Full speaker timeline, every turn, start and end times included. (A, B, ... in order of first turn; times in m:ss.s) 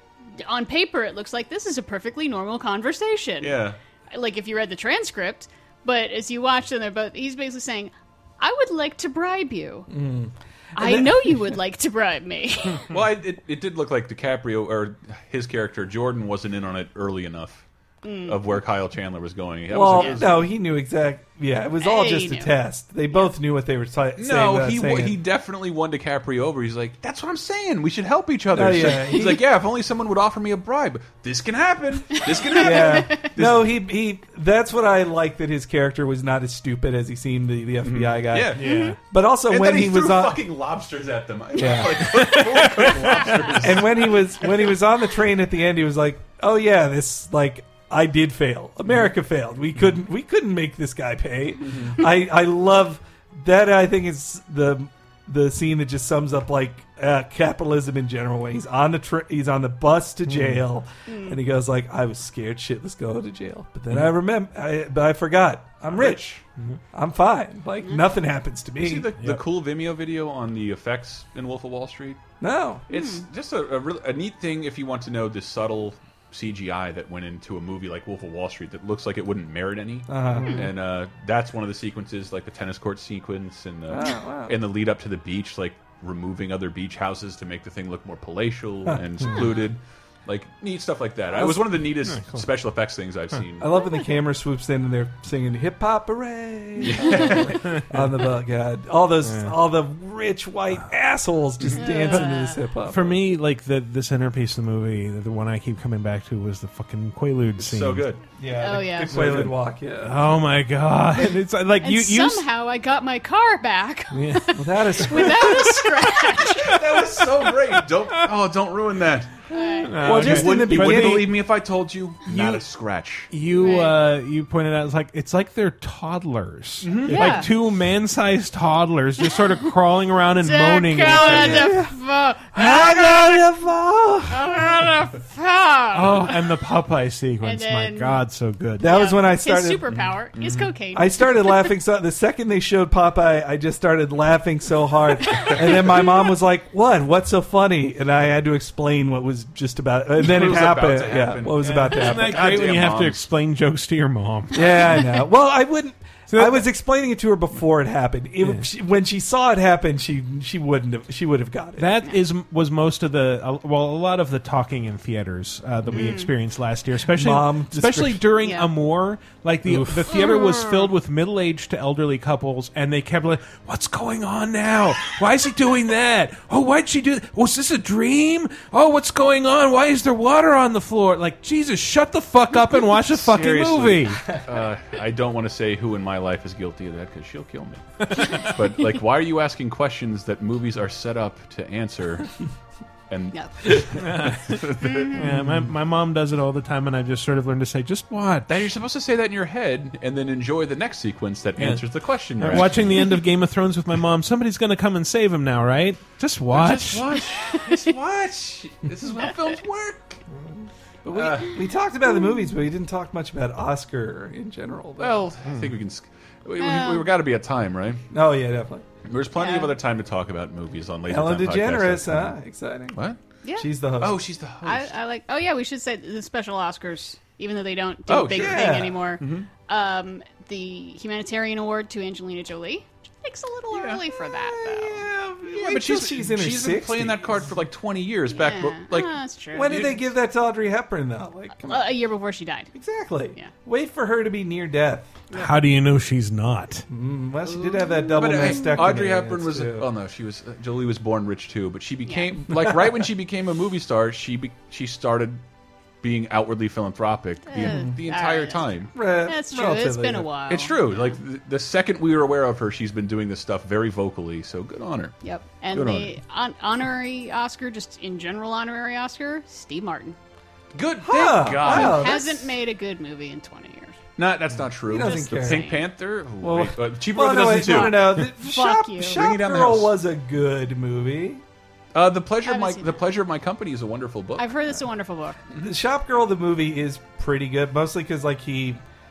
0:00.4-0:09.9 A
0:03.4-0:03.8 B
0:09.9-0:11.5 C
0:10.8-0:12.9 A
0:12.9-0:17.6 B
0:18.0-0:18.4 A
0:18.2-0:20.5 B
0:19.7-0:25.2 C
0:19.9-0:20.2 A
0:21.8-0:22.5 A
0:24.2-0:33.7 B
0:28.5-0:29.4 C
0:32.2-0:33.3 A
0:32.6-0:38.6 C
0:37.8-0:38.8 B
0:38.5-0:39.0 D
0:38.6-0:38.9 A
0:39.1-0:40.4 C
0:39.5-0:44.5 B
0:41.6-0:42.3 C
0:42.2-0:43.1 D
0:43.2-1:06.3 C
0:51.6-0:52.0 B
1:00.3-1:00.6 D
1:01.1-1:01.4 A
1:05.9-1:06.4 B
1:06.9-1:09.1 C
1:08.8-1:12.2 B
1:12.4-1:12.8 C
1:12.9-1:33.7 B
1:12.9-1:13.2 A
1:20.1-1:20.6 C
1:23.9-1:24.6 C
1:31.4-1:31.8 C
1:32.0-1:32.4 D
1:33.6-1:43.2 C
1:36.8-1:37.9 B
1:37.0-1:37.4 A
1:39.2-1:39.5 D
1:41.6-1:42.2 B
1:41.8-1:42.6 A
1:42.8-1:48.1 D
1:47.6-1:48.2 B
1:48.4-1:50.3 C
1:48.6-1:49.3 A
1:49.1-1:49.5 B
1:49.1-1:49.5 D
1:50.0-1:52.5 D
1:51.8-1:56.8 A
1:54.1-1:55.8 D
1:54.5-1:55.8 C
1:56.4-1:59.4 B
1:59.5-2:00.2 A
1:59.8-2:01.4 D
2:00.0-2:01.3 C
2:00.0-2:03.3 B
2:02.3-2:02.6 D
2:03.3-2:11.8 D
2:03.6-2:04.0 A
2:06.8-2:07.4 B
2:07.1-2:07.5 A
2:10.4-2:13.4 A
2:11.2-2:11.9 C
2:12.5-2:14.6 C
2:14.3-2:16.5 A
2:15.9-2:18.9 D
2:17.4-2:18.2 A
2:18.8-2:19.9 C
2:18.8-2:21.7 A
2:19.9-2:20.7 B
2:20.9-2:32.5 C
2:30.2-2:33.2 B
2:31.6-2:35.0 D
2:34.5-2:42.0 C
2:36.3-2:36.7 D
2:41.8-3:04.3 D
2:45.9-2:46.3 A
2:47.1-2:48.2 C
2:48.4-2:48.7 A
2:49.6-2:50.2 C
2:50.1-2:50.9 A
3:03.1-3:12.3 B
3:08.0-3:08.3 D
3:13.1-3:15.4 B
3:13.3-3:13.7 A
3:13.9-3:18.7 D
3:14.8-3:15.4 A
3:18.4-3:23.1 B
3:21.6-3:21.8 D
3:22.4-3:27.2 D
3:26.5-3:30.2 B
3:27.5-3:27.9 A
3:31.0-3:35.3 C
3:31.1-3:31.6 B
3:35.0-3:38.0 B
3:35.4-3:35.7 D
3:36.6-3:37.1 A
3:38.1-3:38.8 C
3:39.0-3:42.3 B
3:39.3-3:39.7 A
3:41.1-3:43.0 C
3:43.6-3:44.2 C
3:44.0-3:44.9 B
3:44.6-3:55.0 A
3:48.1-3:49.5 B
3:48.3-3:49.0 C
3:53.7-3:54.0 B
3:54.4-3:57.5 C
3:55.5-4:00.0 B
3:58.3-3:59.9 A
3:59.5-4:01.9 C
4:01.6-4:02.7 A
4:02.7-4:05.2 C
4:05.3-4:05.6 A
4:05.3-4:06.8 D
4:06.9-4:09.9 C
4:07.5-4:08.9 A
4:08.1-4:15.4 B
4:16.0-4:18.9 B
4:17.5-4:21.2 A
4:17.6-4:17.9 C
4:18.9-4:20.3 C
4:20.5-4:25.2 B
4:25.2-4:30.2 A
4:25.7-4:26.1 B
4:30.7-4:32.4 B
4:31.0-4:32.4 C
4:31.6-4:34.0 A
4:34.2-4:38.2 B
4:34.8-4:35.7 C
4:35.0-4:35.8 A
4:36.4-4:41.4 C
4:37.5-4:39.2 A
4:39.0-4:39.9 B
4:41.9-4:44.8 B
4:42.4-4:43.0 A
4:44.4-4:45.4 A
4:45.6-4:48.8 C